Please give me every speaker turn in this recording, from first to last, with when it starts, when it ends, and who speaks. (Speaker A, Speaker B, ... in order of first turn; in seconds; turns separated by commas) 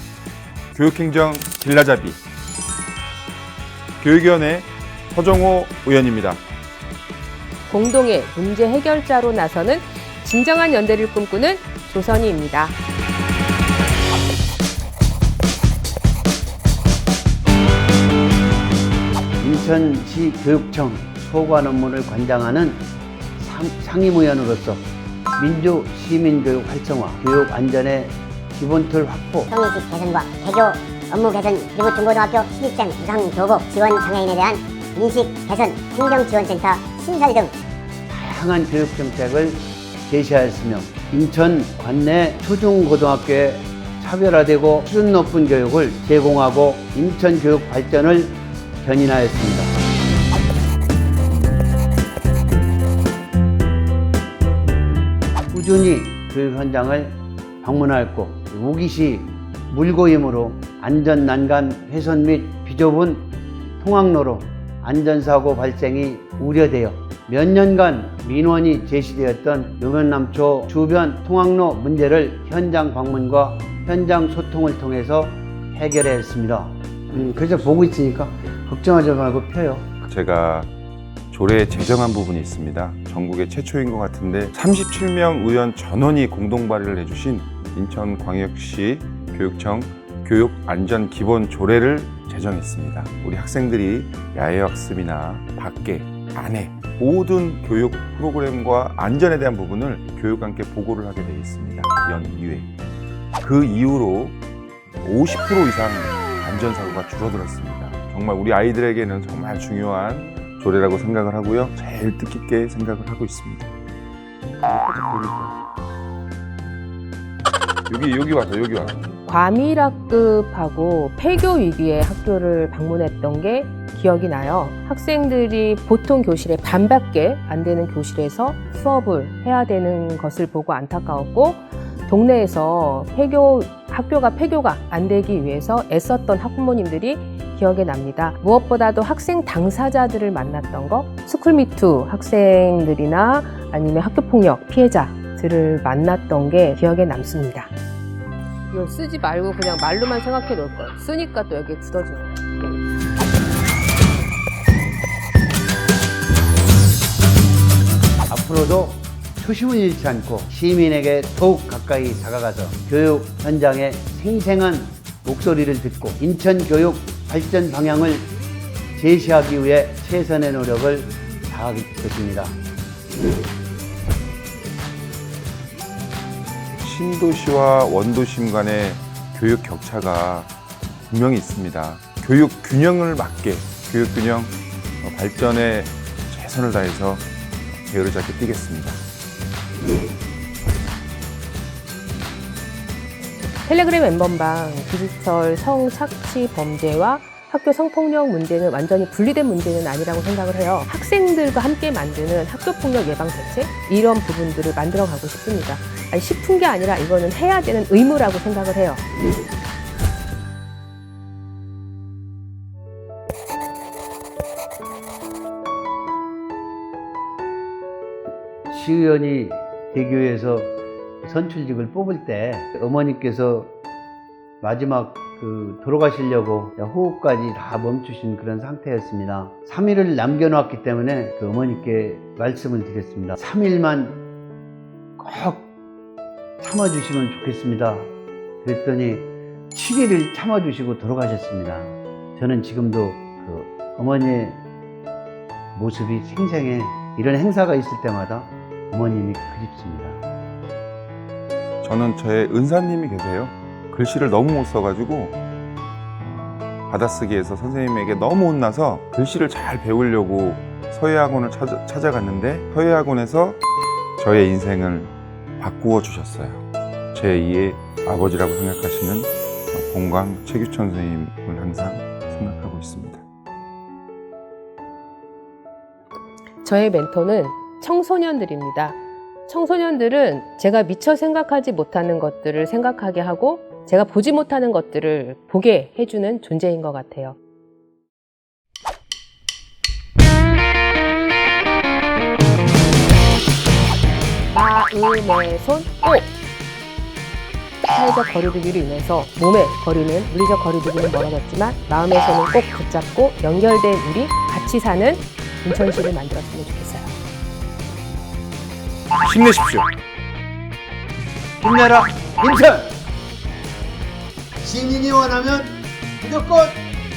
Speaker A: 0.7-2.2, Speaker A: 4.0-6.4, Speaker B: 7.7-12.8, Speaker C: 19.4-24.8, Speaker C: 25.4-29.5, Speaker D: 29.5-37.5, Speaker C: 38.1-49.7, Speaker C: 55.5-79.9, Speaker A: 80.0-80.7, Speaker A: 81.3-102.7, Speaker A: 103.4-104.4, Speaker A: 105.0-113.7, Speaker A: 114.7-115.5, Speaker A: 117.9-119.1, Speaker B: 119.2-147.7, Speaker B: 148.7-152.4, Speaker C: 158.3-168.3, Speaker C: 168.9-172.6, Speaker A: 176.8-180.5, Speaker A: 181.1-189.0, Speaker B: 193.6-209.0, Speaker C: 218.7-223.7, Speaker C: 224.6-234.2, Speaker C: 235.2-235.7, Speaker C: 236.6-238.1, Speaker C: 238.6-244.6, Speaker C: 245.7-250.2, Speaker A: 251.8-255.4, Speaker A: 256.9-263.6, Speaker A: 264.2-273.2, Speaker B: 276.6-287.4, Speaker B: 294.5-296.3, Speaker B: 297.9-307.1, Speaker A: 309.2-309.9, Speaker C: 311.6-312.9, Speaker C: 314.6-316.8